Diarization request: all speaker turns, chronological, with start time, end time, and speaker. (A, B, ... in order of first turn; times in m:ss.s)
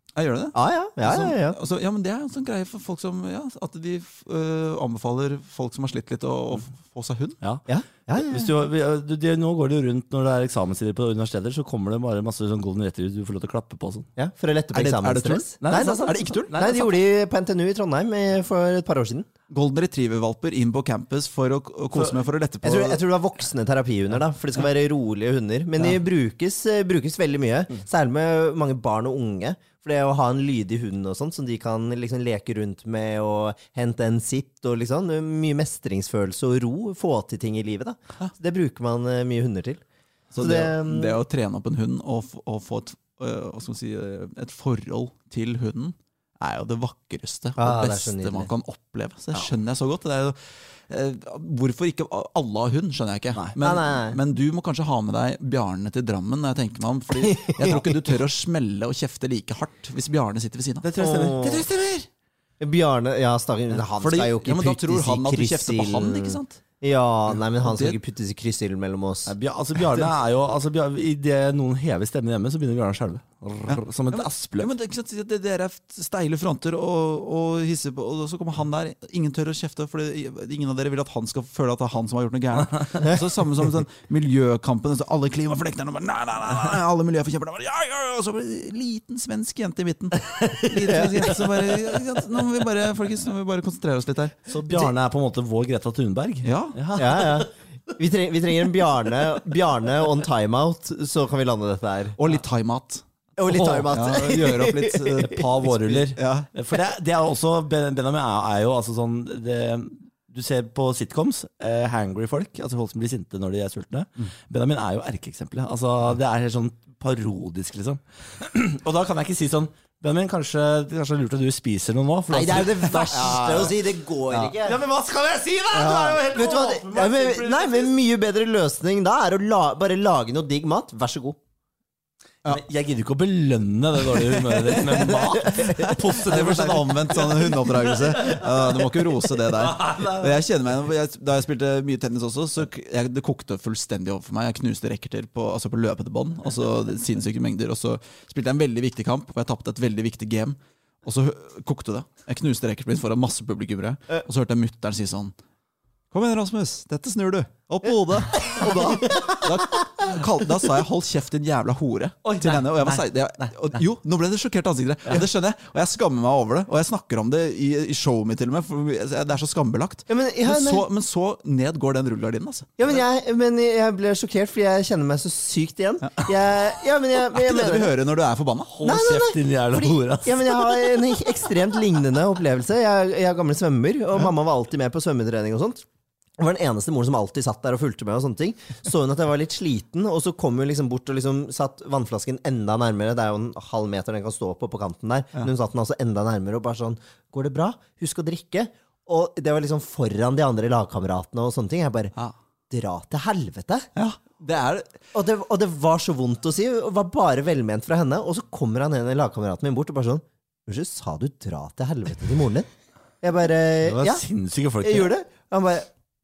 0:00.2-0:07.4 A
0:00.5-0:01.6 B
0:07.4-0:14.1 C
0:07.7-0:08.5 B
0:14.2-0:19.3 B
0:14.7-0:16.5 A
0:15.6-0:16.9 C
0:19.5-0:23.0 A
0:22.6-0:39.8 B
0:40.3-1:02.1 A
0:40.4-0:41.2 B
0:47.6-0:48.5 B
0:53.6-0:54.2 B
0:57.1-0:57.9 B
1:00.8-1:01.7 C
1:01.0-1:01.7 B
1:02.6-1:09.3 B
1:04.0-1:06.6 A
1:07.6-1:08.0 A
1:09.2-1:14.7 C
1:13.7-1:34.4 A
1:30.2-1:31.7 C
1:34.5-1:37.5 C
1:36.4-1:36.8 A
1:37.0-1:42.2 B
1:42.2-1:46.5 A
1:43.4-1:45.4 B
1:45.2-2:03.7 C
2:02.3-2:04.8 B
2:04.3-2:07.9 C
2:05.7-2:06.2 A
2:06.2-2:11.4 B
2:12.5-2:20.4 C
2:14.7-2:16.2 B
2:16.2-2:35.3 A
2:36.1-2:52.7 A
2:38.5-2:40.1 B
2:42.2-2:43.0 B
2:50.1-2:50.8 B
2:52.8-2:57.9 B
2:57.2-2:58.7 A
2:58.7-3:00.8 C
2:58.8-3:05.8 B
3:06.4-3:22.1 B
3:22.7-3:23.9 B
3:24.0-3:25.0 A
3:25.1-3:32.7 B
3:33.2-3:34.2 B
3:33.8-3:35.1 C
3:34.8-3:35.9 B